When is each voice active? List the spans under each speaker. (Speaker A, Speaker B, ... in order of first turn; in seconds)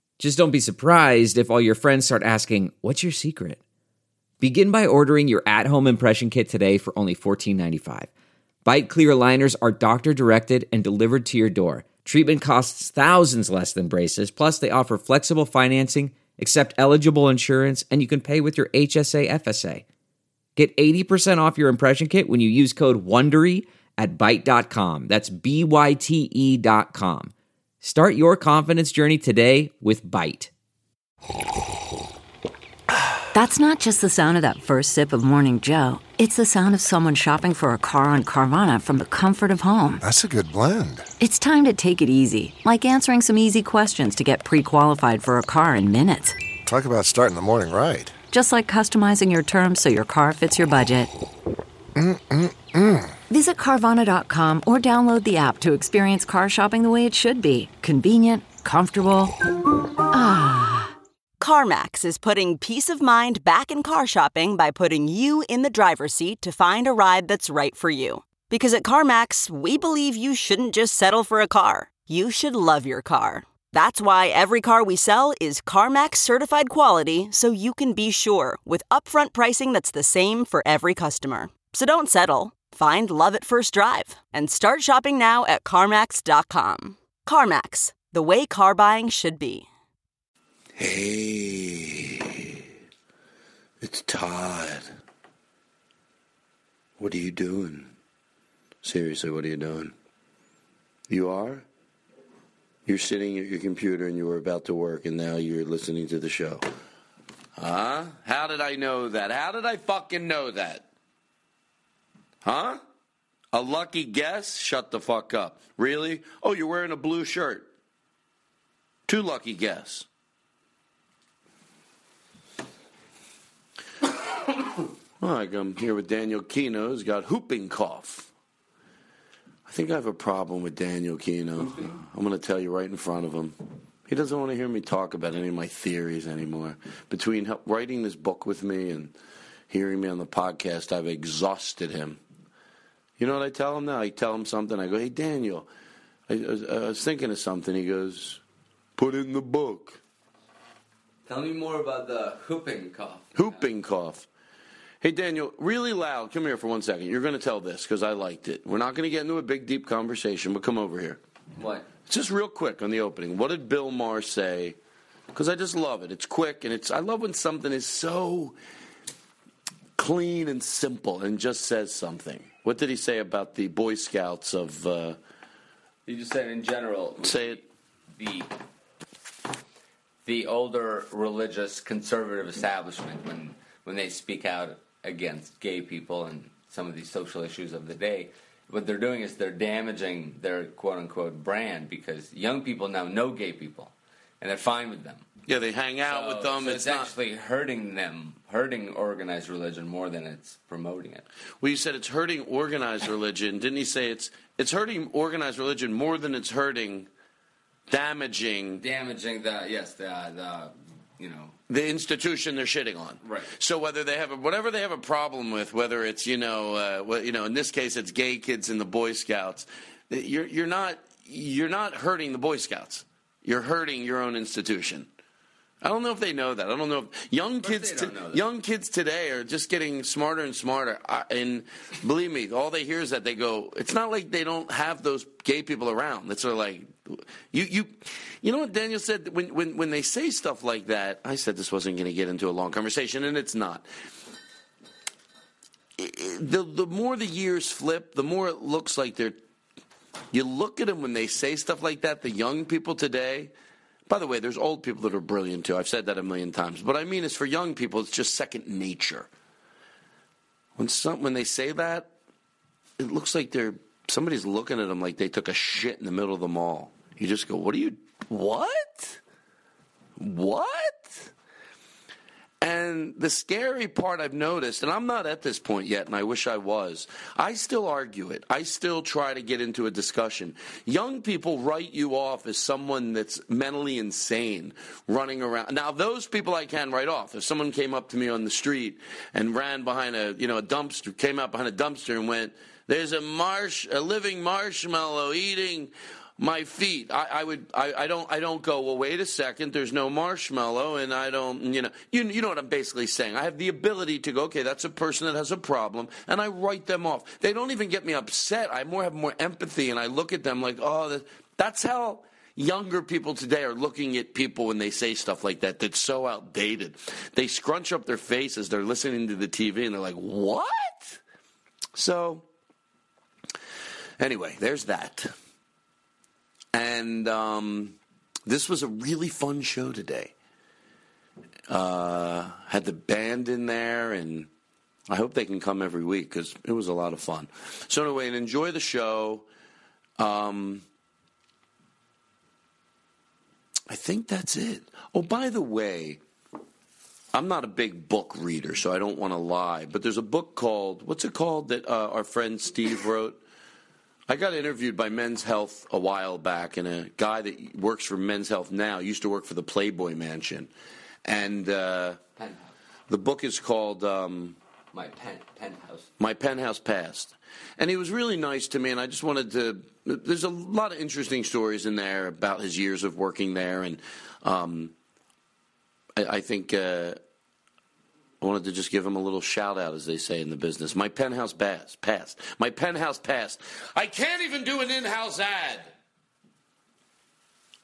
Speaker A: 0.2-3.6, 4.4-8.1, 8.6-19.8, 20.6-30.5
Speaker B: 33.3-40.0, 41.2-46.4, 48.3-51.1, 53.3-59.4, 60.1-60.9
Speaker C: 40.0-41.1, 46.6-48.1, 52.0-53.1
Speaker D: 61.4-89.7
Speaker E: 90.8-92.6, 93.8-94.8, 97.0-97.9, 98.8-99.9, 101.1-101.6, 102.8-106.7, 107.6-110.9, 112.4-112.8, 113.5-117.7, 119.1-120.1, 125.2-128.3, 129.7-133.5, 134.1-139.1, 139.7-142.2, 143.2-145.7, 146.3-148.4, 149.0-150.0, 153.3-154.3, 155.0-161.2, 162.1-164.8, 165.3-168.6, 170.0-175.2, 177.2-177.6, 195.4-197.1, 201.6-207.1, 207.9-208.8, 211.7-225.1, 225.8-243.9, 246.0-249.4, 250.3-253.5, 254.1-259.3, 260.8-262.1, 263.0-269.2, 270.2-271.3, 272.6-321.2, 321.9-322.4, 324.2-325.3, 326.7-330.3, 331.7-334.5, 335.1-339.4, 340.2-340.8, 343.9-346.2, 347.3-353.4, 354.3-360.7, 361.2-362.2, 363.1-364.6, 366.2-374.9, 376.1-377.2, 378.4-385.9
Speaker F: 131.6-132.0, 151.2-153.6, 161.6-161.9, 176.1-177.6, 178.2-178.5, 180.2-195.2, 196.1-201.2, 208.8-211.5, 213.2-213.5, 227.6-228.4, 362.4-362.7, 364.9-366.1